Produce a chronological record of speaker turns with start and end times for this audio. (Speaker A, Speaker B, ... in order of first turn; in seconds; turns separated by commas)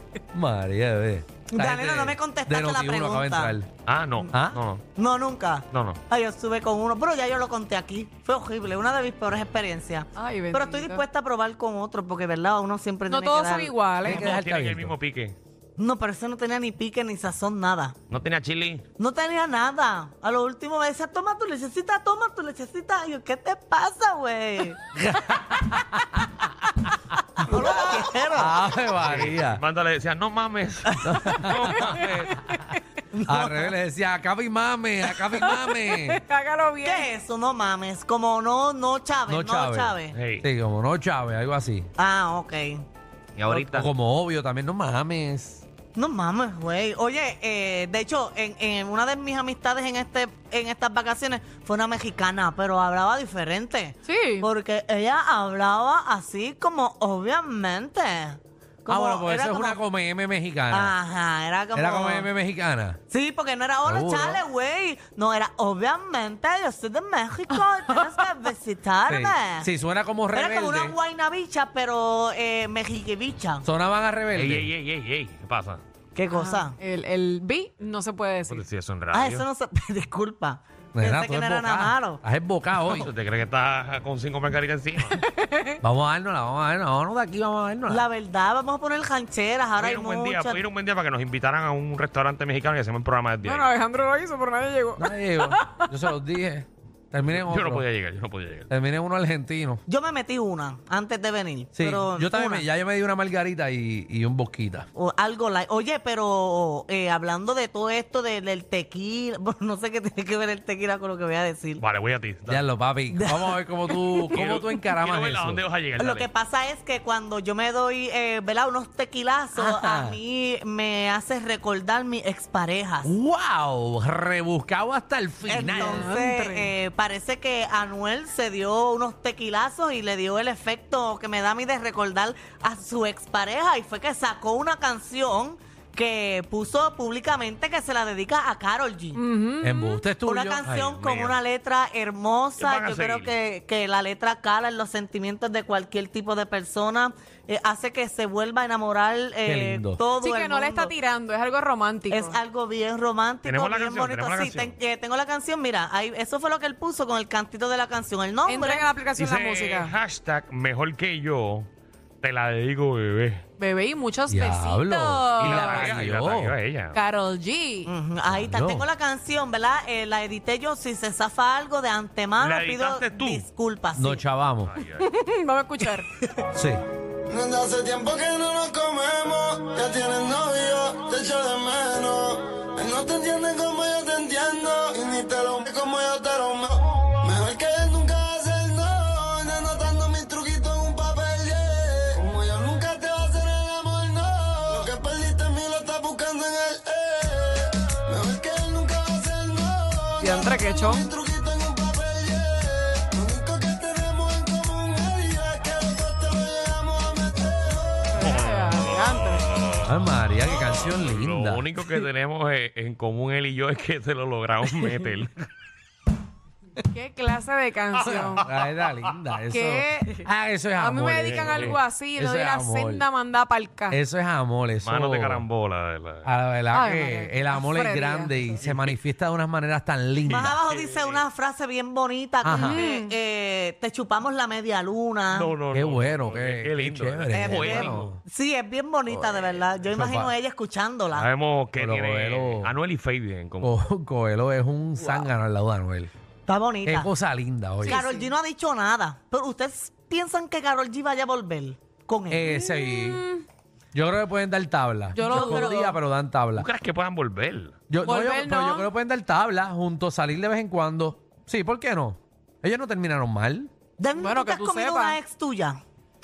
Speaker A: 0.3-3.7, Speaker B: 1.5-3.5, Speaker C: 3.9-4.8, Speaker A: 4.3-4.6, Speaker B: 4.9-13.7, Speaker C: 5.7-6.0, Speaker D: 10.1-11.0, Speaker D: 13.1-14.3, Speaker A: 14.0-14.9, Speaker C: 14.1-15.3, Speaker B: 15.8-17.9, Speaker C: 18.1-18.8, Speaker B: 19.0-24.8, Speaker A: 24.9-26.2, Speaker B: 27.4-28.6, Speaker A: 28.3-29.6, Speaker C: 29.0-32.2, Speaker A: 31.0-32.6, Speaker D: 31.7-32.8, Speaker B: 33.1-33.7, Speaker A: 33.3-36.2, Speaker D: 35.2-37.1, Speaker B: 36.8-40.1, Speaker A: 39.3-41.9, Speaker C: 40.1-40.5, Speaker B: 42.0-42.8, Speaker C: 43.4-43.9, Speaker A: 43.5-45.6, Speaker B: 45.9-59.8, Speaker D: 54.0-54.5, Speaker A: 58.9-60.9, Speaker B: 60.7-62.3, Speaker A: 61.7-63.0, Speaker B: 63.1-69.7, Speaker A: 63.9-64.4, Speaker D: 68.0-68.2, Speaker A: 69.1-71.0, Speaker B: 70.3-73.7, Speaker A: 73.6-74.7, Speaker C: 74.3-75.8, Speaker B: 76.1-76.8, Speaker D: 76.3-78.7, Speaker C: 78.5-79.4, Speaker B: 79.1-82.2, Speaker A: 81.0-83.1, Speaker C: 82.8-85.2, Speaker D: 85.1-85.8, Speaker A: 85.8-88.0, Speaker B: 87.9-90.6, Speaker C: 89.8-93.7, Speaker D: 93.4-95.9, Speaker A: 95.0-97.8, Speaker C: 97.3-98.7, Speaker A: 98.7-99.8, Speaker B: 99.9-102.7, Speaker A: 101.7-104.9, Speaker B: 104.9-111.8, Speaker C: 111.8-112.7, Speaker A: 112.5-115.6, Speaker B: 113.1-114.2, Speaker C: 114.3-116.3, Speaker B: 116.0-123.1, Speaker A: 119.5-120.2, Speaker A: 123.0-126.1, Speaker B: 125.5-139.2, Speaker D: 125.6-126.7, Speaker D: 139.1-140.0, Speaker A: 139.6-140.6, Speaker B: 140.2-150.9, Speaker C: 140.7-141.4, Speaker C: 142.6-143.3, Speaker A: 149.4-150.0, Speaker D: 150.1-152.4, Speaker B: 152.1-158.9, Speaker C: 153.4-154.8, Speaker D: 158.4-159.9, Speaker C: 159.2-161.7, Speaker C: 162.2-163.4, Speaker D: 163.6-165.9, Speaker A: 164.3-166.6, Speaker C: 165.4-167.0, Speaker D: 166.9-167.9, Speaker B: 167.8-174.2, Speaker A: 168.3-168.8, Speaker C: 172.4-173.5, Speaker A: 173.9-174.7, Speaker C: 174.7-175.0, Speaker D: 174.9-176.1, Speaker A: 176.5-176.8, Speaker E: 177.3-208.1, Speaker D: 200.2-201.1, Speaker D: 208.1-209.5, Speaker C: 208.2-215.3, Speaker A: 209.8-211.7, Speaker D: 216.9-218.4, Speaker A: 218.0-223.1, Speaker C: 218.1-218.4, Speaker D: 219.5-224.0, Speaker C: 221.2-221.8, Speaker A: 223.9-225.4, Speaker C: 224.8-226.3, Speaker A: 226.2-230.6, Speaker D: 226.7-228.6, Speaker C: 230.2-231.2, Speaker B: 230.3-235.5, Speaker A: 232.4-232.8, Speaker D: 232.5-233.1, Speaker C: 235.3-238.2, Speaker A: 235.7-238.2, Speaker B: 237.3-241.3, Speaker A: 239.9-240.3, Speaker C: 241.1-243.8, Speaker A: 241.8-242.8, Speaker A: 243.6-246.1, Speaker B: 245.0-245.3, Speaker B: 246.4-247.1, Speaker A: 246.8-248.0, Speaker D: 247.8-248.3, Speaker B: 247.8-252.5, Speaker A: 252.3-253.2, Speaker D: 252.5-253.4, Speaker A: 253.9-256.7, Speaker D: 255.1-255.9, Speaker B: 255.2-255.9, Speaker C: 256.6-257.8, Speaker A: 257.9-263.7, Speaker D: 258.0-258.9, Speaker B: 264.0-265.8, Speaker D: 264.2-265.2